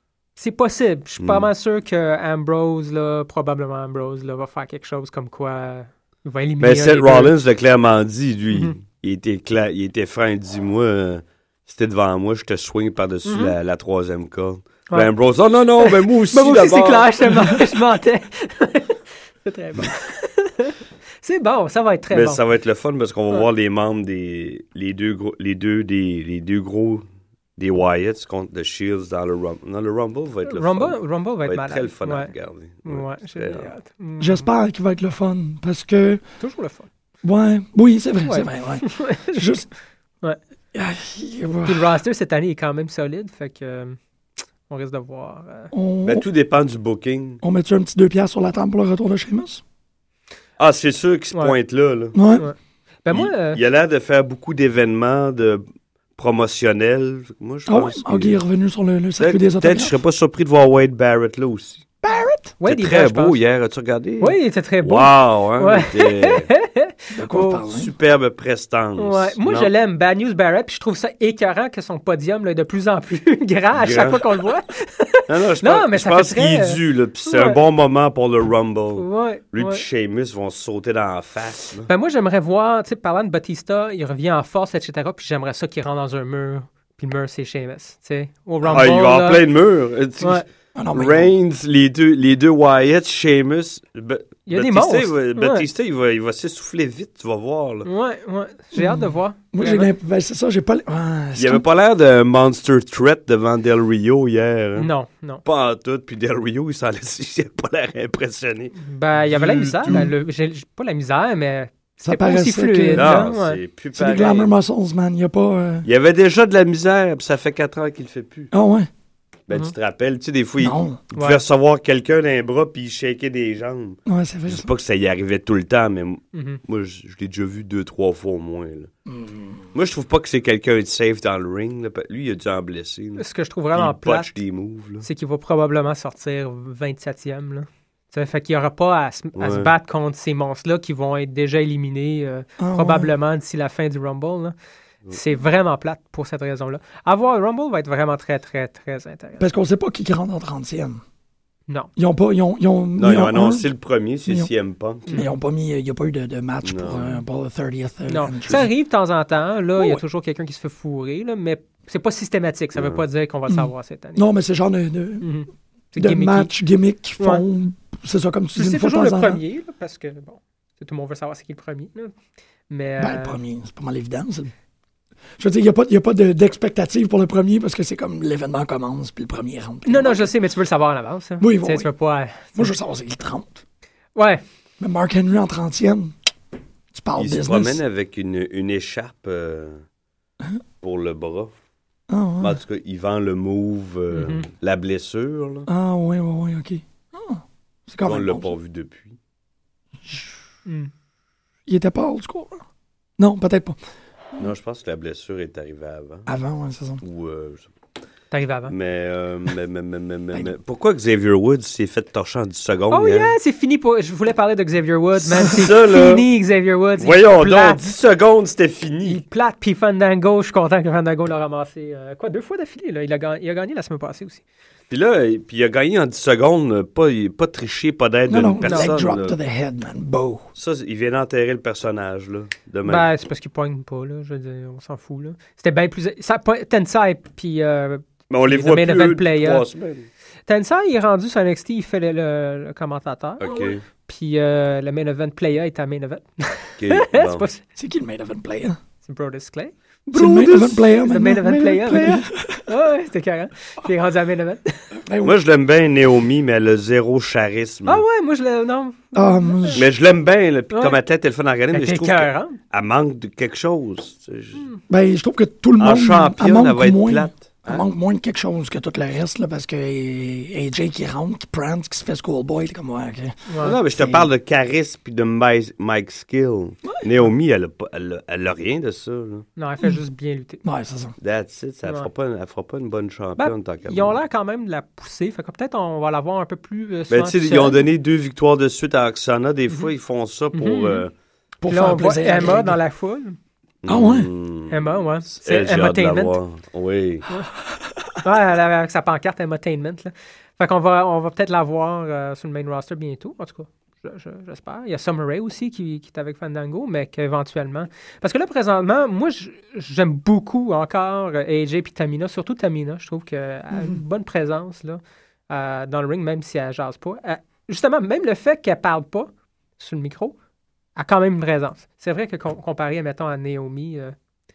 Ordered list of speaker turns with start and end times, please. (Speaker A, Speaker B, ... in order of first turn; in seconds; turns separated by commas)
Speaker A: 0.3-7.3, Speaker B: 1.2-1.5, Speaker B: 6.6-17.6, Speaker A: 13.2-13.5, Speaker A: 15.8-22.4, Speaker B: 22.1-27.0, Speaker B: 27.6-33.7, Speaker A: 30.4-32.3, Speaker A: 32.8-34.5, Speaker C: 34.2-36.2, Speaker A: 36.4-36.9, Speaker C: 37.2-39.7, Speaker A: 38.2-39.5, Speaker C: 40.7-42.0, Speaker A: 41.6-44.0, Speaker A: 44.7-45.7, Speaker C: 45.7-46.2, Speaker B: 46.0-47.4, Speaker C: 47.4-49.6, Speaker B: 50.6-52.1, Speaker C: 52.1-52.5, Speaker A: 52.3-53.6, Speaker B: 53.1-55.6, Speaker B: 56.2-58.4, Speaker C: 57.7-60.0, Speaker B: 59.2-61.9, Speaker C: 62.0-62.5, Speaker A: 62.6-63.4, Speaker B: 62.6-66.5, Speaker A: 64.2-67.6, Speaker C: 67.1-67.9, Speaker B: 67.7-69.7, Speaker A: 69.0-77.6, Speaker B: 73.7-74.3, Speaker B: 75.3-81.9, Speaker A: 78.9-79.8, Speaker A: 81.9-89.4, Speaker B: 88.7-97.9, Speaker C: 90.7-91.3, Speaker A: 94.5-95.6, Speaker A: 97.8-99.9, Speaker C: 98.7-101.6, Speaker B: 101.3-104.9, Speaker A: 104.8-105.4, Speaker B: 105.4-110.0, Speaker A: 108.8-113.6, Speaker C: 112.0-113.3, Speaker B: 113.0-114.5, Speaker C: 113.9-115.9, Speaker B: 115.8-118.5, Speaker C: 118.5-118.9, Speaker B: 119.5-128.9, Speaker C: 120.6-121.0, Speaker A: 121.1-121.4, Speaker C: 124.0-124.7, Speaker A: 126.3-126.6, Speaker C: 129.1-129.7, Speaker B: 129.7-135.1, Speaker A: 133.2-134.3, Speaker A: 135.0-144.5, Speaker B: 139.3-139.7, Speaker C: 142.6-143.1, Speaker A: 145.1-149.4, Speaker C: 149.4-151.0, Speaker C: 151.9-153.7, Speaker B: 153.0-155.2, Speaker A: 155.1-155.3, Speaker C: 155.1-158.7, Speaker B: 156.6-157.2, Speaker A: 158.1-164.2, Speaker C: 159.8-160.0, Speaker B: 162.8-163.0, Speaker C: 163.5-165.3, Speaker A: 165.2-166.5, Speaker C: 165.9-169.4, Speaker A: 168.5-172.1, Speaker A: 172.7-173.4, Speaker C: 173.0-174.5, Speaker C: 175.4-180.3, Speaker A: 179.8-182.7, Speaker C: 181.4-181.9, Speaker C: 182.5-183.6, Speaker A: 184.1-184.4, Speaker C: 184.8-186.1, Speaker C: 186.9-187.8, Speaker B: 187.2-189.8, Speaker B: 190.8-191.5, Speaker C: 192.1-192.6, Speaker B: 192.4-195.7, Speaker A: 194.1-194.5, Speaker C: 195.7-198.5, Speaker B: 198.0-199.2, Speaker C: 200.0-200.3, Speaker A: 200.7-200.9, Speaker C: 201.7-202.6, Speaker C: 203.2-203.8, Speaker B: 204.4-206.3, Speaker C: 206.3-207.0, Speaker B: 207.0-207.7, Speaker A: 208.3-208.7, Speaker B: 208.7-213.3, Speaker A: 212.9-217.9, Speaker B: 215.3-216.2, Speaker B: 217.0-219.2, Speaker A: 219.0-224.4, Speaker B: 224.9-229.4, Speaker C: 228.3-230.5, Speaker A: 228.6-228.9, Speaker B: 230.6-233.1, Speaker A: 232.8-239.6, Speaker B: 238.3-240.1, Speaker A: 240.5-247.6, Speaker B: 243.4-243.8, Speaker B: 246.8-247.4, Speaker C: 247.8-248.8, Speaker A: 249.0-254.9, Speaker C: 250.1-252.7, Speaker B: 250.2-250.6, Speaker B: 251.6-252.2, Speaker C: 254.9-255.4, Speaker B: 255.2-258.0, Speaker A: 257.9-259.8, Speaker C: 259.1-259.9, Speaker B: 259.7-264.6, Speaker A: 260.7-261.0, Speaker A: 261.7-262.6, Speaker A: 264.5-264.8, Speaker C: 264.9-274.3, Speaker B: 265.8-267.8, Speaker A: 273.5-273.8, Speaker B: 273.6-279.4, Speaker A: 279.6-280.6, Speaker C: 280.6-281.1, Speaker B: 281.2-284.1, Speaker A: 283.4-287.8, Speaker B: 287.1-291.1, Speaker A: 290.5-291.0, Speaker C: 291.6-292.8, Speaker A: 291.7-293.4, Speaker B: 293.8-297.2, Speaker C: 293.9-294.3, Speaker A: 294.7-296.4, Speaker A: 298.2-320.4, Speaker C: 313.7-314.0, Speaker A: 320.9-324.1